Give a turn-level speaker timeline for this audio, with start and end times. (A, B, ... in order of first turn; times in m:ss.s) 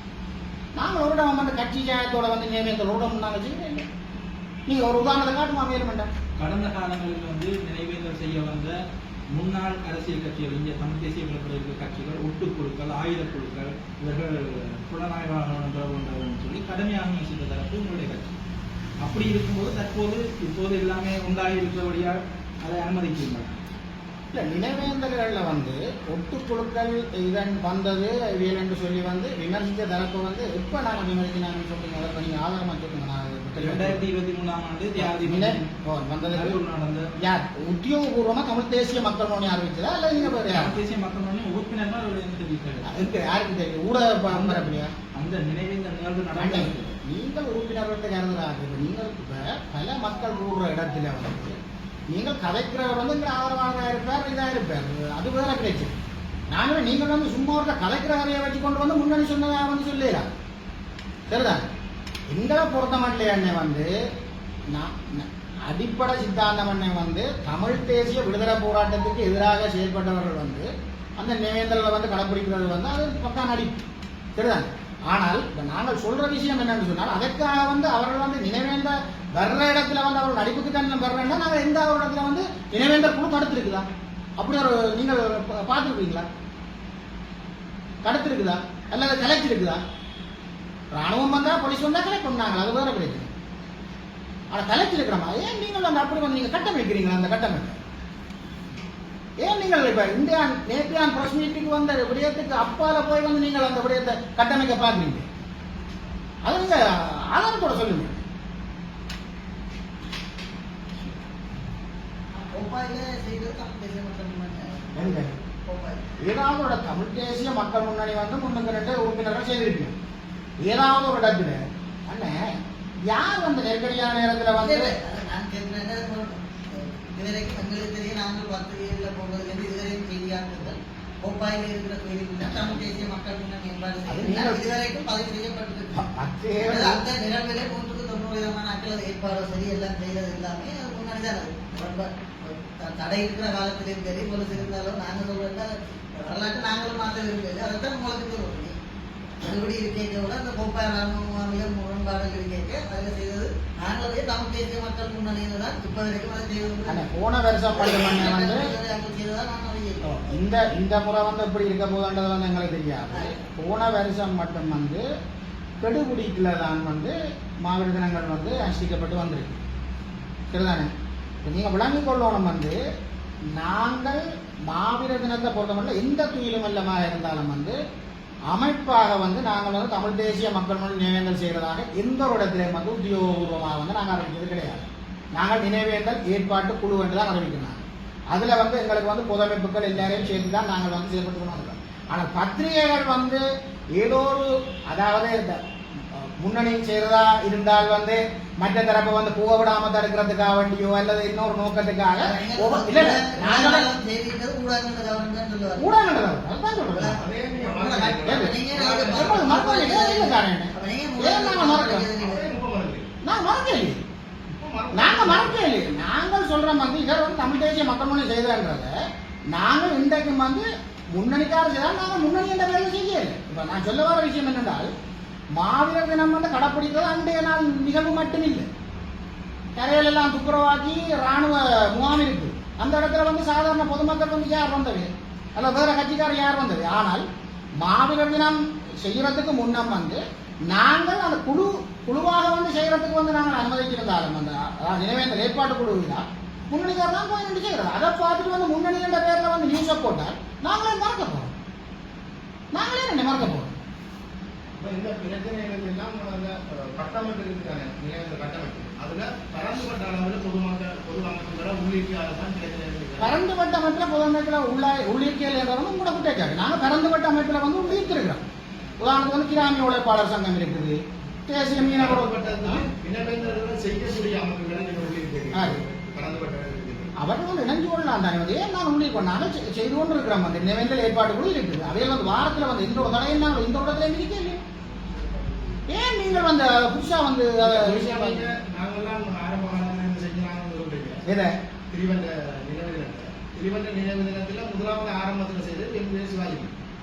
0:00.7-0:03.8 A
0:04.7-0:06.1 A
0:06.4-0:08.7 B
0:09.3-0:18.4 B
0:19.0-0:23.6 B
0:24.3-0:34.0 A
0:33.6-0:35.6 B
0:35.0-0:36.6 A
0:36.3-0:37.1 B
0:37.2-0:40.8 A
0:40.2-0:42.9 B
0:42.8-0:44.9 A
0:44.3-0:46.9 B
0:46.4-0:51.6 A
0:52.1-0:55.9 A
0:56.5-1:00.2 A
1:01.3-1:01.7 A
1:02.3-1:03.9 A
1:04.7-1:13.8 A
1:14.4-1:26.3 A
1:28.0-1:29.8 A
1:30.9-1:33.3 A
1:34.5-1:37.8 A
1:39.4-1:45.2 A
1:46.4-1:48.2 A
1:52.4-1:56.0 C
1:54.9-1:55.3 A
1:56.2-1:59.9 A
2:00.6-2:02.4 A
2:03.1-2:04.9 A
2:04.6-2:16.0 C
2:14.1-2:14.6 A
2:15.9-2:17.0 A
2:16.6-2:28.7 C
2:29.4-2:37.0 C
2:36.8-2:38.7 A
2:37.7-2:40.4 C
2:40.0-2:45.0 A
2:45.8-2:49.6 A
2:50.5-2:50.9 A
2:51.4-2:52.8 A
2:53.5-2:57.8 A
2:58.5-3:13.4 A
3:14.0-3:15.6 A
3:16.1-3:23.9 A
3:22.2-3:25.9 C
3:25.8-3:27.2 A
3:26.9-3:32.6 C
3:27.2-3:29.5 D
3:28.2-3:32.1 A
3:32.2-3:33.1 D
3:33.2-3:34.0 A
3:34.5-3:35.6 D
3:34.9-3:38.9 A
3:39.5-3:44.9 A
3:45.6-3:48.7 A
3:49.7-3:57.2 A
3:57.8-4:11.5 A
4:12.7-4:13.7 A
4:14.8-4:23.4 D
4:23.2-4:28.4 A
4:29.0-4:32.8 A
4:31.8-4:37.1 D
4:35.5-4:35.8 A
4:37.2-4:44.6 A
4:45.9-4:48.5 A
4:47.6-4:51.2 D
4:51.3-4:51.5 A
4:51.9-4:56.7 D